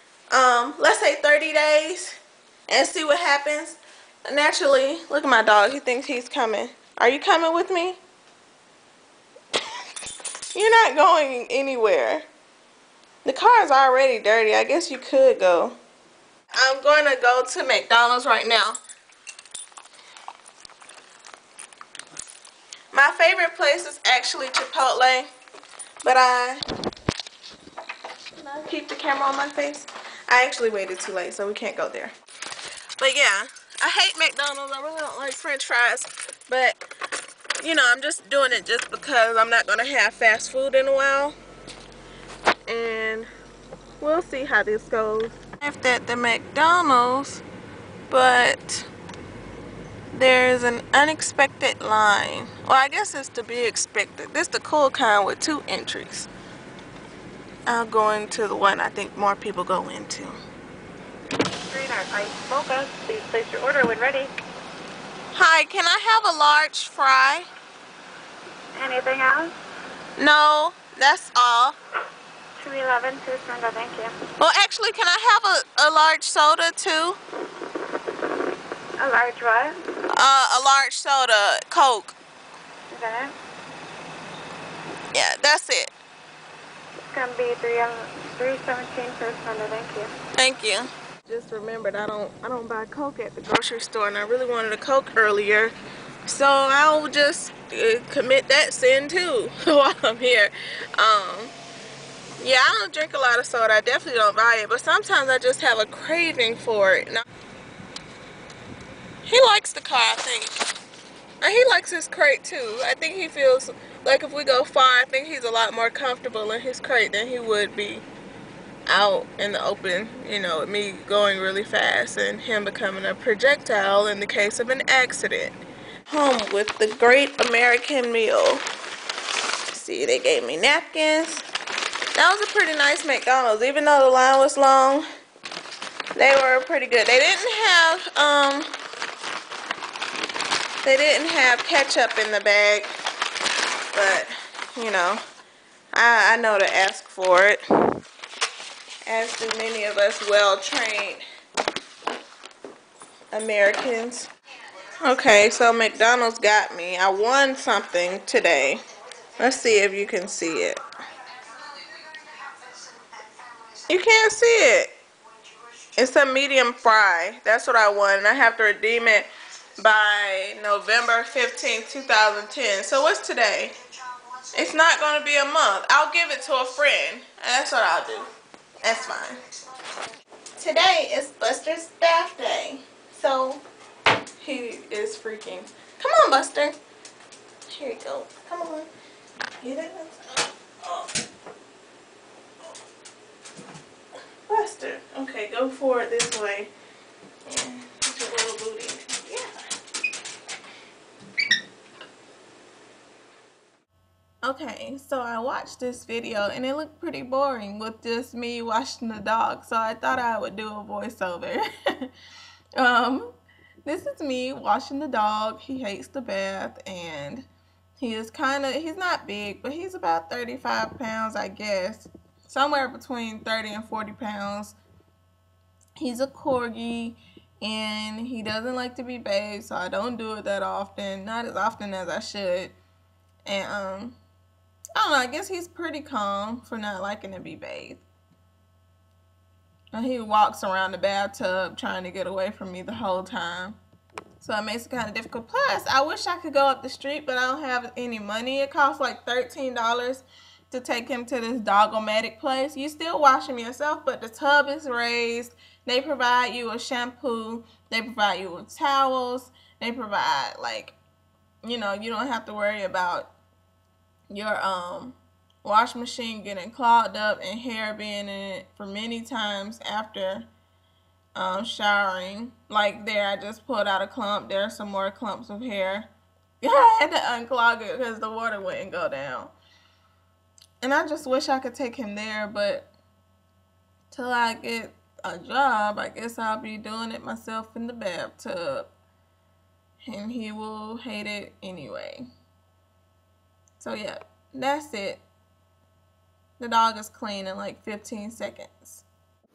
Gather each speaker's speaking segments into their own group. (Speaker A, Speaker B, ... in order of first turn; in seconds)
Speaker A: 0.3-2.1, 2.7-8.0, 10.5-12.2, 13.2-15.8, 16.6-18.8, 22.9-25.3, 26.0-26.6, 28.4-32.1, 33.0-36.8, 37.6-41.3, 42.7-43.3, 44.0-47.4, 48.1-48.9, 50.1-56.3, 57.7-60.4, 65.3-67.5, 70.2-71.8, 74.4-77.2, 80.1-82.2, 85.1-85.9, 90.4-95.7, 96.2-101.5, 102.4-107.2, 109.2-110.5, 111.4-118.0, 118.9-125.6, 126.1-128.6, 129.7-131.4, 132.1-135.0, 136.2-138.7, 140.8-142.9, 143.9-145.2, 145.9-147.6, 149.1-151.2, 153.3-154.3, 155.0-158.8, 159.4-160.8, 163.9-164.9, 166.0-169.3, 169.8-173.7, 174.5-178.3, 178.8-179.4, 180.6-183.6, 184.4-186.8, 187.7-188.9, 189.6-191.1, 194.5-196.7, 197.4-199.6, 204.4-212.1, 212.8-213.3, 213.8-217.5, 218.0-224.8, 226.0-232.7, 233.4-234.2, 234.9-238.0, 239.9-243.8, 244.4-261.0, 261.6-263.3, 264.3-270.5, 271.3-276.1, 276.6-279.5, 280.8-282.9, 284.1-288.9, 290.0-292.2, 293.8-295.2, 296.6-299.0
Speaker B: 61.7-64.3, 68.7-69.5, 72.6-74.2, 79.0-79.8, 82.9-83.3, 87.1-90.1